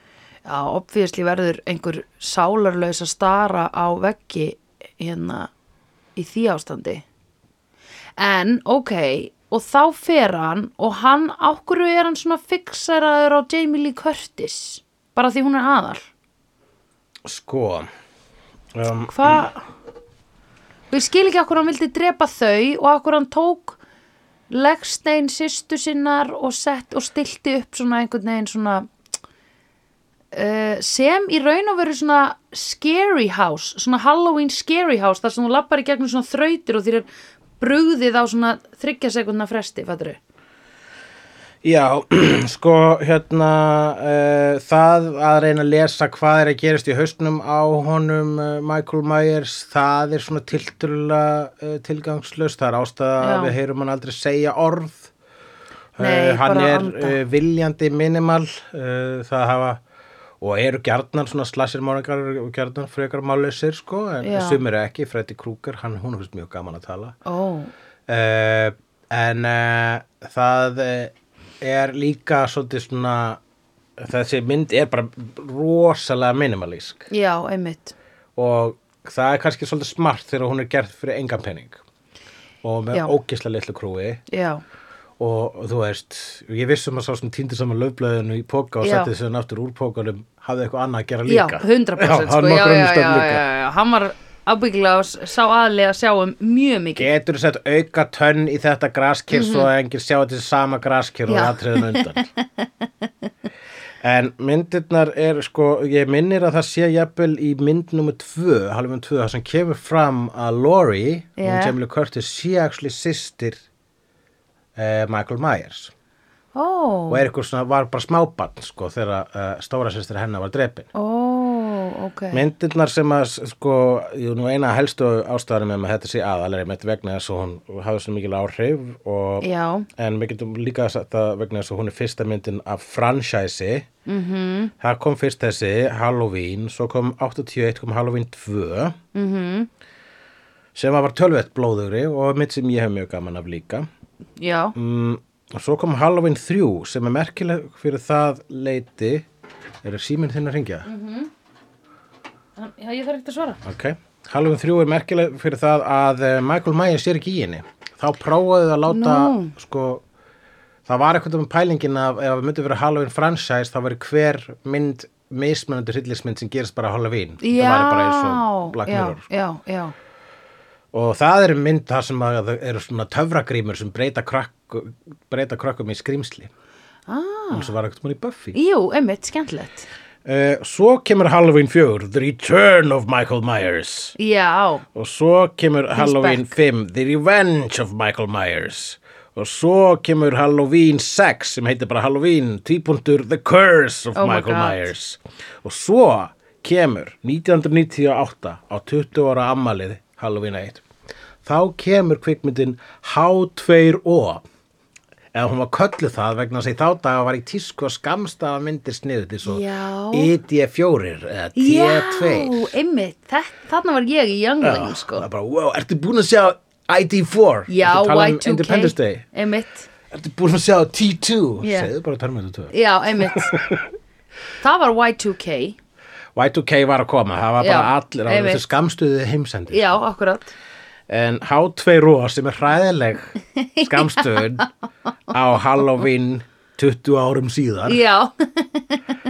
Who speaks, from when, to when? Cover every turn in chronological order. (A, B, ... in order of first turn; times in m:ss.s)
0:00.4-0:05.5 A
0:06.2-0:07.0 A
0:08.2-0:16.1 A
0:17.2-0:17.9 B
0:18.7-0:19.6 B
0:19.1-0:19.5 A
0:20.9-0:23.8 A
0:24.5-0:28.9 A
0:30.3-0:37.1 A
0:37.6-0:40.2 A
0:41.6-0:55.1 B
0:53.2-0:53.5 A
0:56.0-0:59.8 B
0:56.0-0:57.2 A
1:00.4-1:07.2 B
1:04.2-1:04.6 A
1:07.2-1:07.7 A
1:08.1-1:13.4 B
1:14.0-1:17.1 B
1:17.1-1:17.9 A
1:18.4-1:21.8 B
1:22.6-1:24.2 B
1:24.3-1:24.6 A
1:25.2-1:33.4 B
1:28.8-1:29.1 A
1:31.3-1:37.1 A
1:37.0-1:42.3 B
1:39.3-1:39.7 A
1:41.3-1:42.8 A
1:44.0-1:53.6 B
1:51.4-1:51.7 A
1:54.8-1:55.9 B
1:56.5-1:57.2 A
1:57.1-2:00.9 B
2:00.9-2:02.4 A
2:02.3-2:13.9 B
2:09.4-2:09.9 A
2:14.0-2:14.7 A
2:14.8-2:19.0 B
2:19.1-2:19.7 A
2:20.7-2:23.9 B
2:24.4-2:24.7 A
2:24.7-2:29.2 B
2:29.8-2:30.9 B
2:30.8-2:31.3 A
2:32.6-2:33.6 A
2:33.6-2:40.0 B
2:38.9-2:39.5 A
2:40.8-2:49.2 B
2:47.4-2:49.9 A
2:50.9-2:56.5 B
2:57.1-2:57.7 A
2:57.5-2:58.5 B
2:58.5-2:59.9 A
3:00.2-3:04.1 B
3:04.2-3:04.8 A
3:04.9-3:20.8 B
3:05.9-3:06.6 A
3:14.1-3:14.9 A
3:21.4-3:24.4 B
3:25.3-3:32.7 B
3:29.4-3:30.3 A
3:31.5-3:35.3 A
3:34.6-3:39.3 B
3:37.7-3:39.9 A
3:40.1-3:43.9 B
3:41.6-3:41.9 A
3:42.7-3:43.5 A
3:44.6-3:45.8 A
3:46.3-3:50.0 B
3:47.6-3:48.6 A
3:49.7-3:50.5 A
3:51.1-3:54.7 B
3:53.6-3:54.5 A
3:55.3-3:58.0 B
3:57.9-3:59.0 A